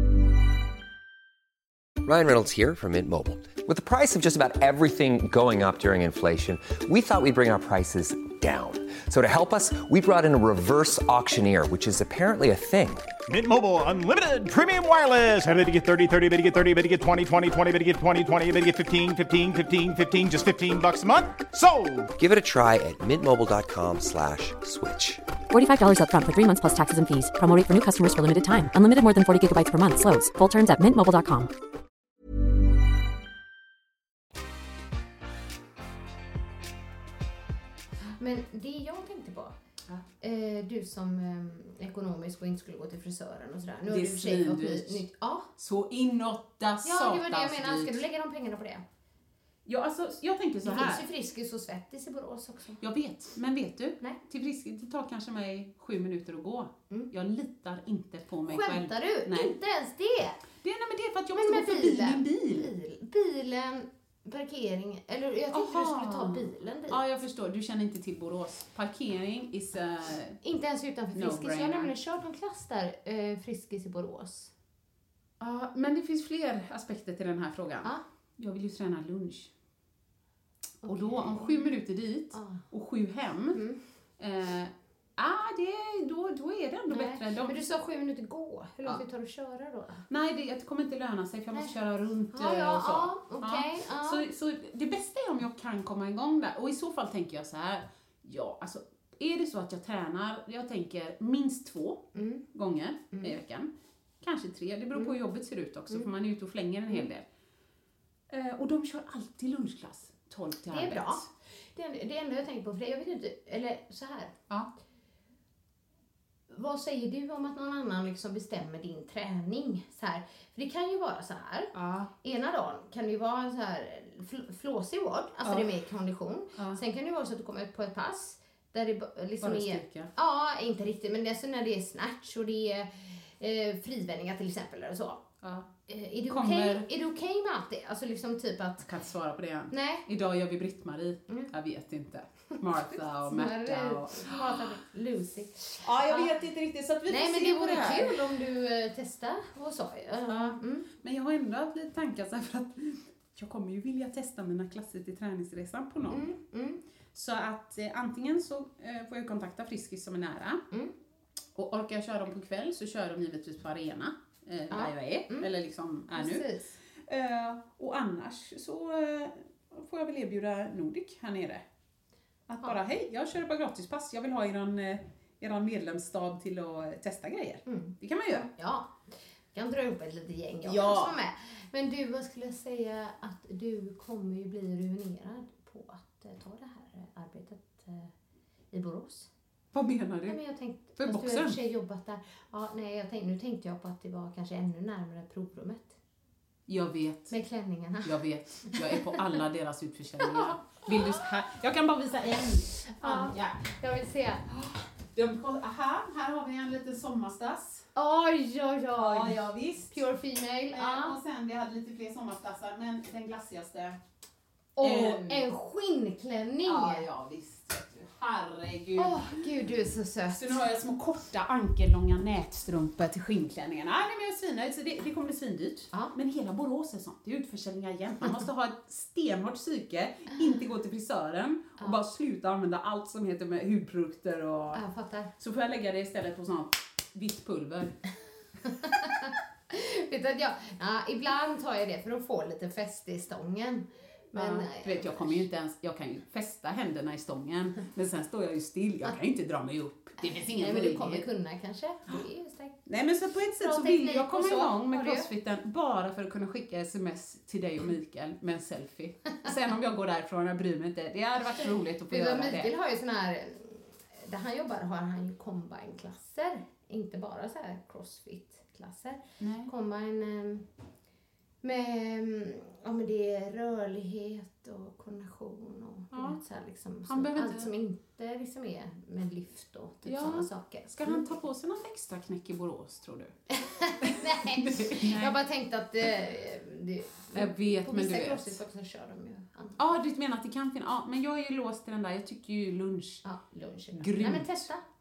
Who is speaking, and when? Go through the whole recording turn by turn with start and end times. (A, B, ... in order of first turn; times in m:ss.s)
0:02.0-0:13.1 A
0:13.3-0:22.1 B
0:22.2-0:25.2 A
0:25.5-0:31.5 C
0:38.2-0:39.6 D
0:40.2-0:45.5 D
0:43.9-0:45.0 E
0:45.6-0:48.0 E
0:46.8-0:48.8 D
0:49.7-0:51.1 E
0:50.6-0:52.8 D
0:52.8-0:59.5 E
0:58.5-1:00.4 D
1:00.6-1:02.7 E
1:01.4-1:07.0 D
1:05.5-1:10.4 E
1:10.4-1:14.5 D
1:11.1-1:11.9 E
1:15.4-1:19.5 E
1:20.8-1:21.8 D
1:20.8-1:23.6 E
1:22.3-1:22.6 D
1:23.5-1:23.8 D
1:24.2-1:27.6 E
1:26.9-1:30.0 D
1:30.1-1:43.7 E
1:32.3-1:34.2 D
1:42.2-1:42.4 D
1:44.2-1:47.2 E
1:48.3-1:51.3 E
1:50.7-1:54.3 D
1:56.5-2:15.2 D
2:01.7-2:02.1 E
2:05.4-2:05.7 E
2:06.6-2:06.8 E
2:09.4-2:10.1 E
2:15.4-2:15.7 E
2:15.9-2:18.9 D
2:16.3-2:16.9 E
2:18.8-2:24.4 E
2:19.7-2:20.0 D
2:23.3-2:26.3 D
2:25.8-2:28.3 E
2:27.1-2:30.9 D
2:30.3-2:36.3 E
2:36.1-2:36.8 D
2:37.1-2:40.6 E
2:41.6-2:46.5 E
2:44.7-2:45.5 D
2:46.1-2:46.7 D
2:47.1-2:51.6 E
2:52.5-2:58.5 E
2:57.7-3:08.1 D
3:00.6-3:01.2 E
3:08.7-3:09.3 D
3:09.7-3:10.4 E
3:10.3-3:16.0 D
3:11.0-3:11.6 E
3:16.7-3:17.4 E
3:17.3-3:19.2 D
3:18.0-3:23.7 E
3:22.9-3:24.4 D
3:24.5-3:27.9 E
3:28.0-3:31.2 D
3:29.0-3:30.0 E
3:30.7-3:34.0 E
3:34.8-3:37.1 D
3:34.8-3:35.5 E
3:36.6-3:39.5 E
3:39.0-3:40.4 D
3:40.3-3:54.8 E
3:54.7-3:55.3 D
3:55.4-3:58.0 E
3:58.7-4:05.4 D
4:04.4-4:11.3 E
4:10.2-4:12.8 D
4:12.9-4:22.7 E
4:13.6-4:15.3 D
4:22.1-4:30.6 D
4:29.4-4:29.7 E
4:31.6-4:41.3 D
4:36.1-4:36.4 E
4:37.0-4:37.7 E
4:40.0-4:43.3 E
4:43.5-4:49.8 D
4:44.0-4:45.4 E
4:47.3-4:48.6 E
4:49.8-4:53.2 E
4:53.2-4:54.8 D
4:54.0-4:54.7 E